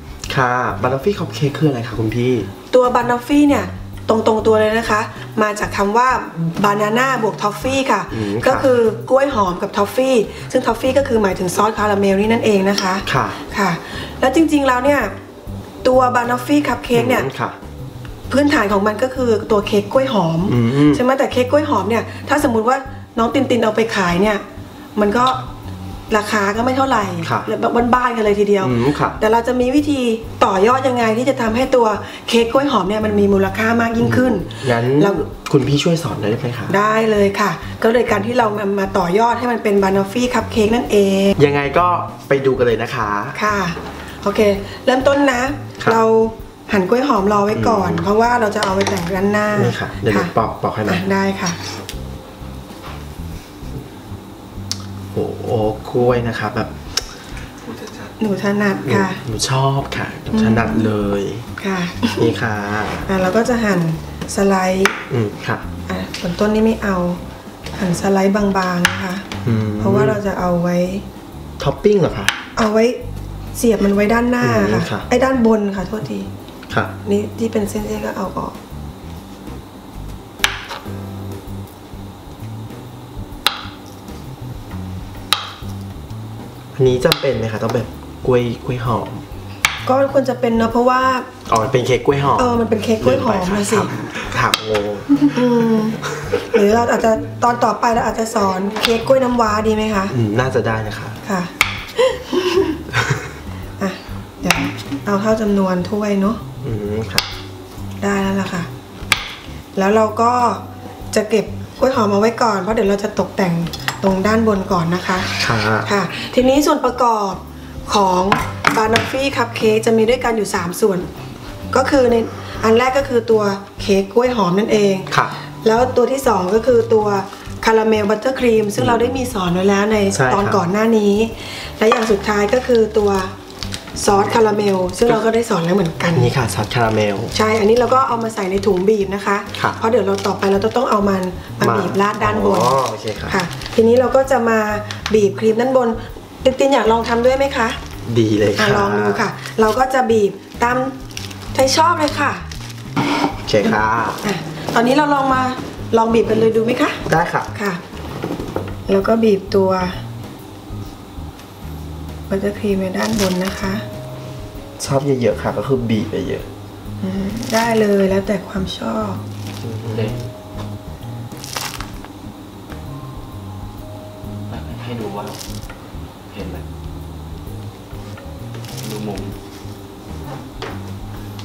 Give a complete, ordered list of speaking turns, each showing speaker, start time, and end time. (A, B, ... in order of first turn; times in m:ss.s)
0:00.3-0:02.5 A
0:02.7-0:15.1 B
0:08.1-0:08.7 A
0:13.1-0:13.4 A
0:15.8-0:17.3 B
0:16.9-0:17.6 A
0:18.3-0:24.4 B
0:20.5-0:21.0 A
0:25.0-0:25.4 B
0:26.1-0:35.2 B
0:27.2-0:27.5 A
0:28.6-0:29.2 A
0:34.0-0:36.8 A
0:36.7-0:41.4 B
0:41.4-0:43.4 A
0:43.3-0:50.3 B
0:47.5-0:48.1 A
0:49.6-0:51.0 A
0:50.9-0:51.6 B
0:55.1-0:56.8 A
0:58.2-0:59.2 B
0:58.8-1:01.5 A
1:00.3-1:00.9 B
1:01.6-1:02.3 B
1:02.2-1:03.1 A
1:03.1-1:05.0 B
1:05.1-1:05.6 A
1:05.9-1:07.2 B
1:07.8-1:09.3 B
1:09.4-1:10.2 A
1:09.8-1:11.0 B
1:11.6-1:12.3 A
1:12.6-1:13.0 B
1:13.6-1:16.3 B
1:14.4-1:15.1 A
1:17.0-1:18.6 B
1:26.8-1:29.2 A
1:29.9-1:31.3 B
1:31.5-1:35.1 A
1:32.4-1:33.9 B
1:35.2-1:40.1 B
1:40.1-1:41.2 A
1:41.2-1:42.8 B
1:43.0-1:43.2 A
1:43.8-1:46.4 B
1:46.6-1:47.3 A
1:48.0-1:48.7 B
1:49.8-2:01.1 B
1:55.4-1:55.9 A
2:01.7-2:05.1 B
2:05.6-2:13.3 B
2:08.8-2:09.1 A
2:10.1-2:10.6 A
2:14.0-2:16.3 B
2:16.2-2:17.3 A
2:17.3-2:27.8 B
2:19.5-2:19.8 A
2:21.6-2:23.4 A
2:28.0-2:29.2 A
2:28.6-2:31.0 B
2:31.5-2:32.5 B
2:33.4-2:34.2 A
2:33.6-2:37.0 B
2:37.1-2:37.5 A
2:37.5-2:37.8 B
2:38.9-2:40.0 B
2:42.3-2:43.8 B
2:44.8-2:46.5 A
2:47.0-2:49.2 B
2:49.6-2:50.2 A
2:54.5-2:55.4 C
2:56.3-2:56.6 C
2:58.8-2:59.4 C